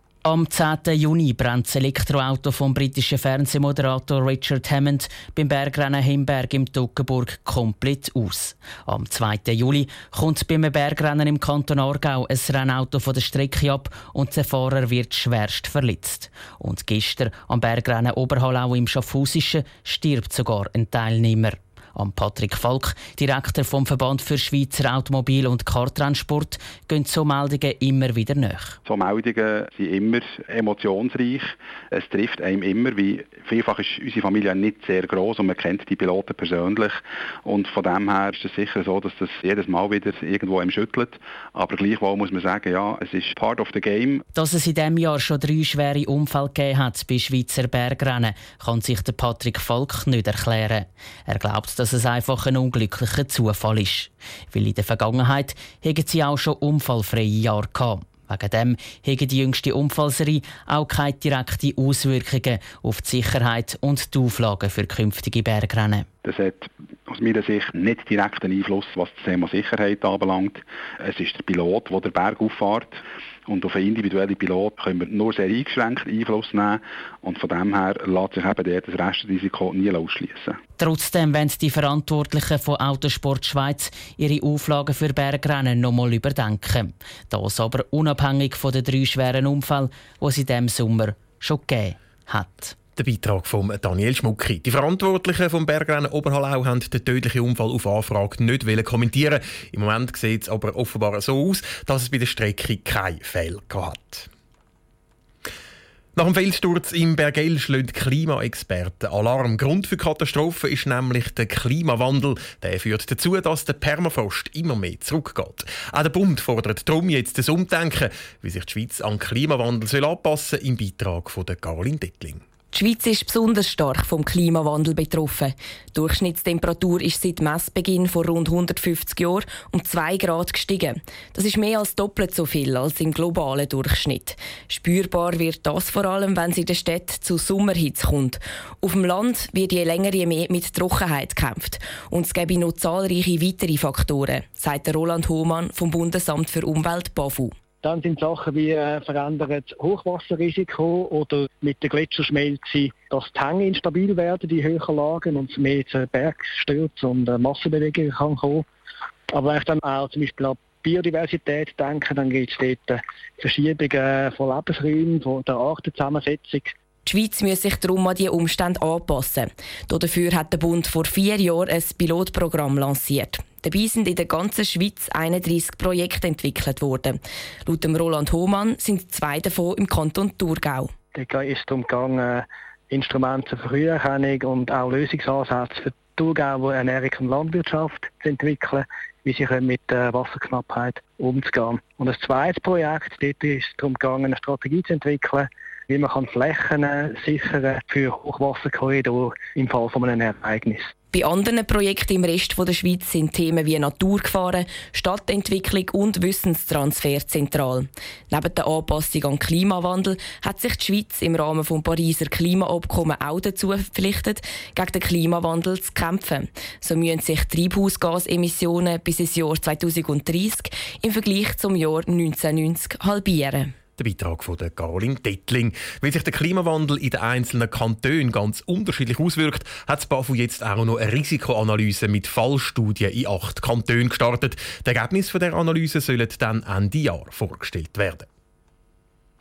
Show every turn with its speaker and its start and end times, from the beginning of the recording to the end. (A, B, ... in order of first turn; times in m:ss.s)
0:00.2-0:28.8 A
0:28.8-0:44.2 B
0:44.3-1:06.0 A
1:06.2-1:20.6 B
1:20.8-1:32.7 A
1:33.0-1:44.3 C
1:46.2-2:02.4 C
2:02.7-2:27.6 D
2:27.8-2:38.6 E
2:39.3-2:46.7 E
2:47.0-3:00.9 D
3:01.1-3:20.9 E
3:21.1-3:43.7 D
3:44.0-3:58.3 C